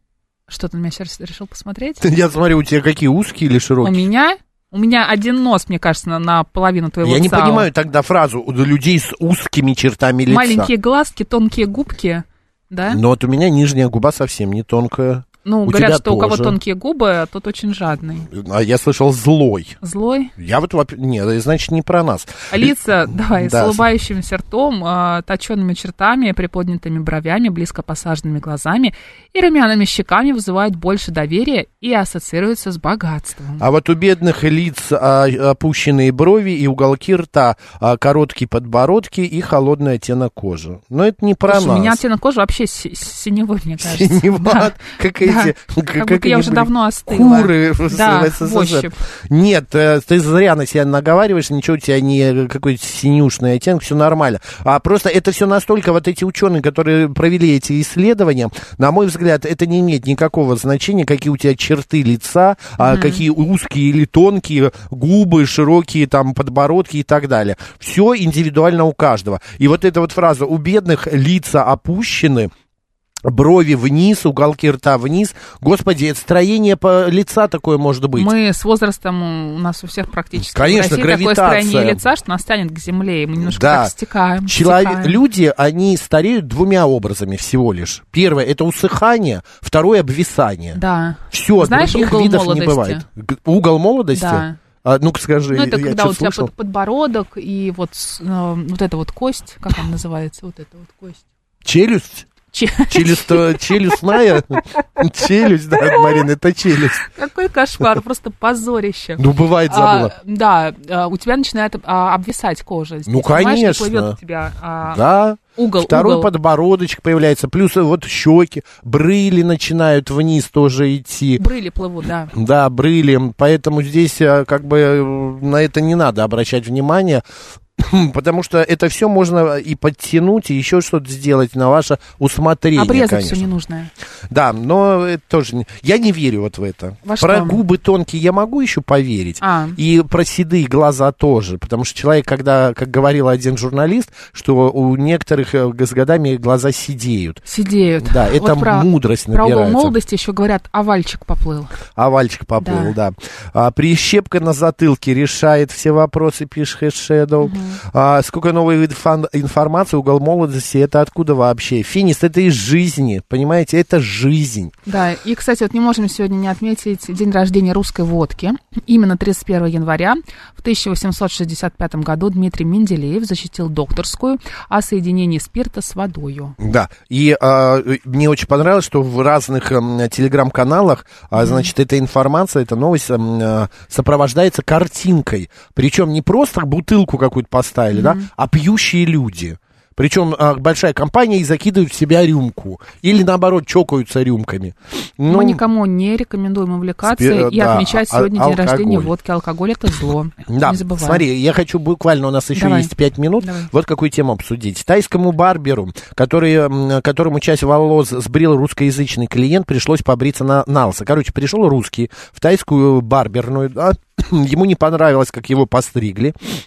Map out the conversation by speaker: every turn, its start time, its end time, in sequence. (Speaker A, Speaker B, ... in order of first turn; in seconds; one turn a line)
Speaker A: 0.5-2.0
Speaker B: 2.0-4.0
Speaker A: 3.8-7.7
Speaker B: 7.0-10.7
Speaker A: 10.3-13.0
Speaker B: 12.9-16.6
Speaker A: 15.4-18.3
Speaker B: 18.2-19.8
Speaker A: 19.8-20.3
Speaker B: 20.4-23.8
Speaker A: 22.5-33.6
Speaker B: 33.6-42.0
Speaker A: 41.5-49.0
Speaker B: 43.8-72.5
Speaker A: 62.8-63.2
Speaker B: 73.2-78.3
Speaker A: 78.1-85.2
Speaker B: 80.4-82.0
Speaker B: 83.4-83.9
Speaker B: 84.4-90.8
Speaker A: 90.7-93.0
Speaker B: 91.3-96.5
Speaker A: 94.1-94.6
Speaker A: 95.5-101.2
Speaker B: 101.6-102.3
Speaker A: 102.5-104.6
Speaker B: 102.9-107.1
Speaker A: 105.8-106.2
Speaker A: 107.0-115.0
Speaker B: 109.2-110.1
Speaker B: 113.1-114.2
Speaker B: 114.8-121.4
Speaker A: 115.5-116.3
Speaker A: 121.4-122.3
Speaker B: 122.3-127.2
Speaker B: 127.8-133.5
Speaker A: 132.7-133.9
Speaker B: 134.3-147.4
Speaker A: 137.0-137.6
Speaker A: 139.4-139.8
Speaker A: 147.4-151.8
Speaker B: 148.0-149.9
Speaker B: 151.9-164.7
Speaker A: 152.6-152.9
Speaker A: 157.4-157.8
Speaker A: 164.8-176.6
Speaker B: 176.6-195.6
Speaker A: 181.4-181.7
Speaker A: 187.9-188.3
Speaker A: 195.3-201.2
Speaker B: 197.0-199.1
Speaker B: 200.5-216.3
Speaker A: 202.5-203.7